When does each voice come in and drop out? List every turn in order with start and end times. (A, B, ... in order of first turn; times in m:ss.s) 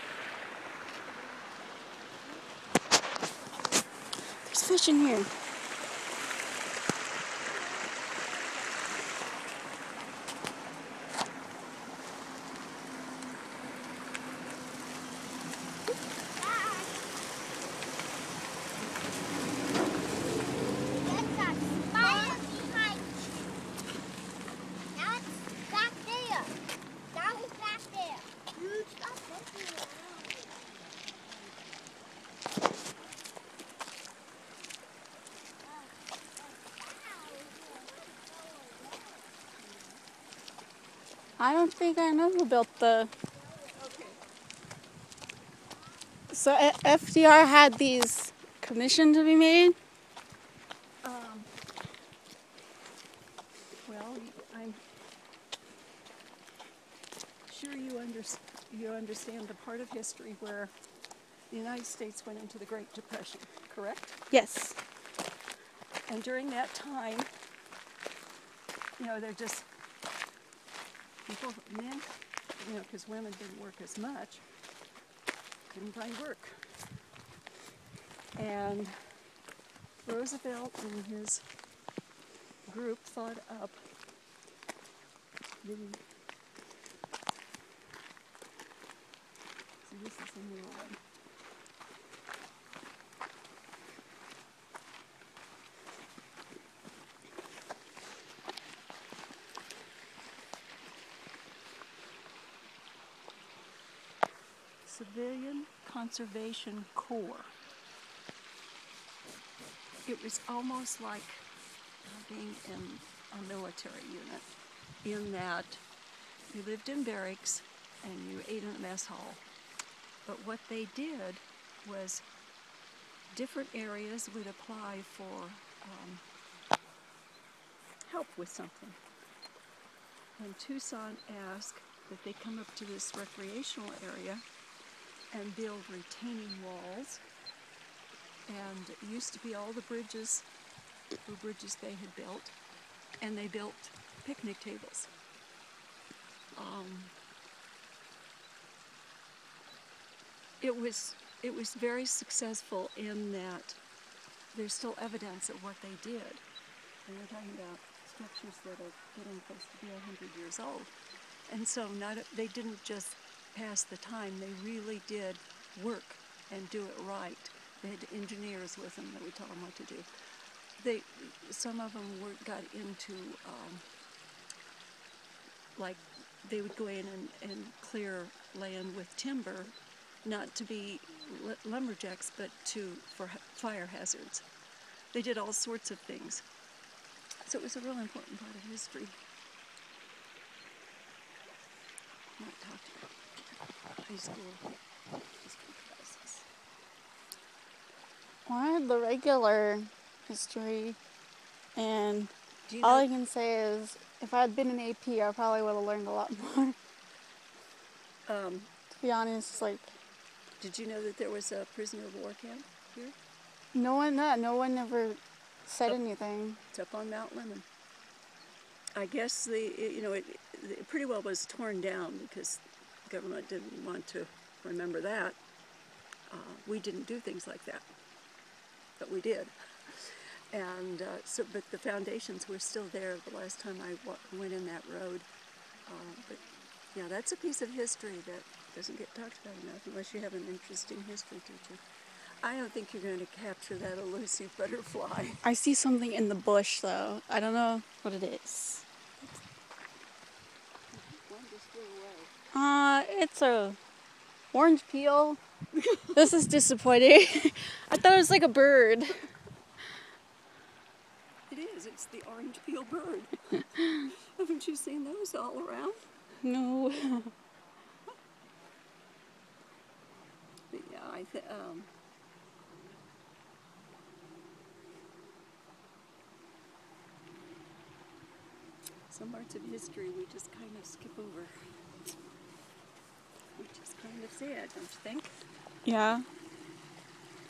0:04.4-0:05.3 A
0:21.0-0:23.0 B
0:25.0-0:26.6 B
0:27.1-0:28.3 B
0:37.1-0:37.4 B
0:41.4-0:43.1 A
0:43.6-0:44.2 C
0:46.3-0:49.8 A
0:51.0-0:51.5 C
0:53.9-0:54.8 C
0:57.5-1:00.7 C
1:01.5-1:04.2 C
1:04.3-1:04.8 A
1:06.1-1:07.3 C
1:09.0-1:09.7 C
1:11.3-1:14.4 C
1:15.7-1:16.6 C
1:18.4-1:19.0 C
1:20.0-1:21.4 C
1:22.7-1:23.8 C
1:25.6-1:26.0 C
1:29.8-1:31.0 C
1:44.8-1:47.5 C
1:50.1-1:51.5 C
1:52.0-1:54.5 C
1:55.0-1:55.8 C
1:56.5-1:59.4 C
2:00.3-2:02.2 C
2:03.3-2:06.2 C
2:08.1-2:09.0 C
2:10.4-2:14.4 C
2:15.3-2:17.2 C
2:18.5-2:20.4 C
2:21.2-2:22.6 C
2:23.2-2:25.1 C
2:26.6-2:27.1 C
2:30.6-2:33.8 C
2:34.5-2:36.4 C
2:37.1-2:40.9 C
2:41.5-2:50.1 C
2:50.8-2:53.9 C
2:55.8-3:04.4 C
3:05.1-3:06.4 C
3:07.5-3:09.2 C
3:12.4-3:13.1 C
3:14.0-3:14.8 C
3:15.4-3:16.4 C
3:18.5-3:21.0 A
3:21.8-3:26.8 A
3:22.7-3:23.1 C
3:28.3-3:28.7 C
3:29.0-3:29.9 A
3:30.6-3:33.2 C
3:33.7-3:36.6 A
3:36.7-3:37.7 C
3:39.0-3:45.4 C
3:46.3-3:47.8 C
3:49.0-3:55.3 C
3:55.9-3:56.4 C
3:56.9-4:01.8 C
4:02.4-4:05.4 C
4:05.4-4:08.8 A
4:10.9-4:12.3 C
4:12.5-4:13.8 A
4:14.5-4:15.4 A
4:15.8-4:16.3 C
4:16.1-4:19.2 A
4:21.5-4:26.0 C
4:26.4-4:27.3 A
4:30.7-4:31.9 C
4:39.1-4:41.5 C
4:43.6-4:45.4 C
4:45.8-4:46.3 A